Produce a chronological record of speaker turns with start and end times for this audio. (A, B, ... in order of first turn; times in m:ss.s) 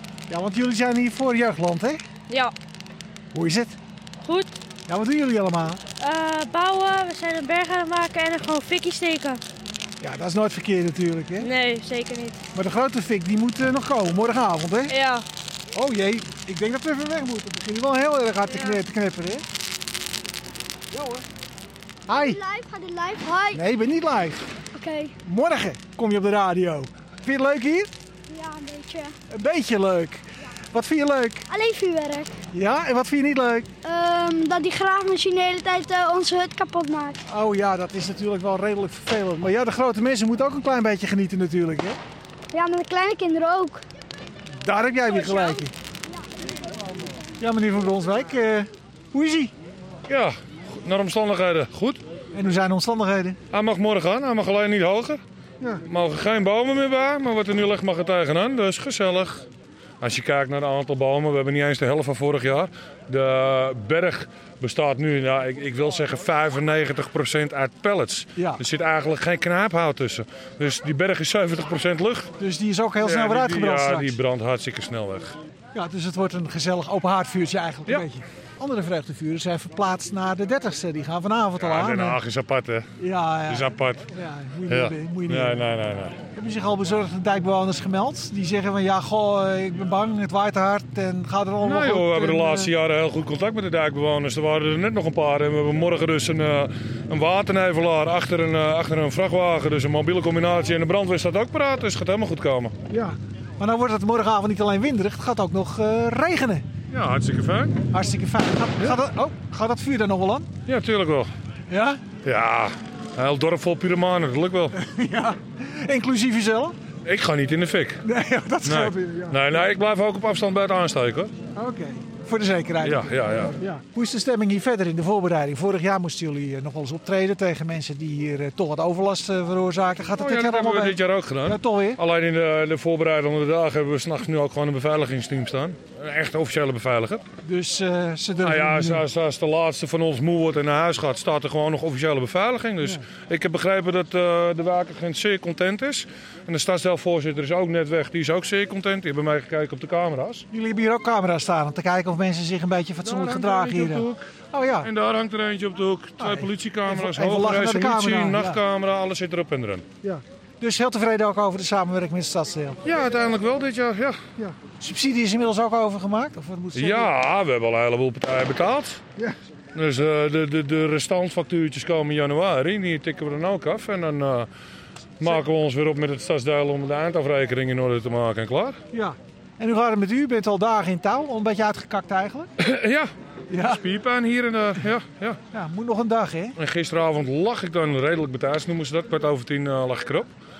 0:00.3-0:02.0 A
0:02.3-0:02.5 B
0:03.3-0:03.8 A
0:04.2-0:04.6 B
0:04.9-0:05.8 A
0:06.0-0:09.4 B
0:10.0-0:11.5 A
0:11.4-0:12.4 B
0:12.5-0:15.0 A
0:14.9-0:15.2 B
0:15.7-0:19.4 A
0:18.5-0:18.8 B
0:20.9-0:21.2 A
0:22.1-0:22.4 A
0:22.1-0:23.6 C
0:23.5-0:24.5 A
0:24.7-0:25.2 C
0:25.2-0:27.9 A
0:28.3-0:29.2 C
0:29.3-0:31.4 A
0:31.5-0:32.4 C
0:32.5-0:33.7 A
0:33.8-0:37.2 C
0:37.3-0:42.0 A
0:42.5-0:43.8 C
0:44.6-0:45.7 A
0:45.2-0:45.6 C
0:47.4-0:49.5 A
0:50.1-0:52.0 D
0:52.3-0:53.4 A
0:53.5-0:55.2 D
0:55.8-0:59.5 D
1:00.0-1:12.3 D
1:08.4-1:08.6 A
1:12.4-1:14.2 A
1:13.0-1:15.4 D
1:15.7-1:22.2 A
1:21.6-1:22.9 D
1:23.0-1:25.6 A
1:23.5-1:24.1 D
1:24.7-1:26.2 D
1:26.3-1:32.7 A
1:31.6-1:42.8 D
1:42.9-1:46.6 A
1:46.9-1:47.8 D
1:47.9-1:50.5 A
1:50.7-1:51.3 D
1:51.7-1:52.0 A
1:52.2-1:54.8 D
1:54.7-1:56.8 A
1:57.0-1:58.0 D
1:58.0-1:59.4 A
1:58.6-2:01.3 D
2:01.6-2:12.0 A
2:02.8-2:03.6 D
2:10.2-2:17.2 D
2:17.4-2:19.0 A
2:18.4-2:30.5 D
2:30.5-2:34.9 A
2:33.0-2:34.2 D
2:34.8-2:39.9 D
2:36.2-2:38.6 A
2:40.0-2:42.8 A
2:42.8-2:44.2 D
2:44.4-2:47.1 A
2:46.8-2:49.0 D
2:49.8-2:54.5 D
2:55.2-2:58.8 D
2:58.9-3:02.5 A
3:02.6-3:05.4 D
3:03.5-3:03.8 A
3:05.5-3:06.6 A
3:06.6-3:10.3 D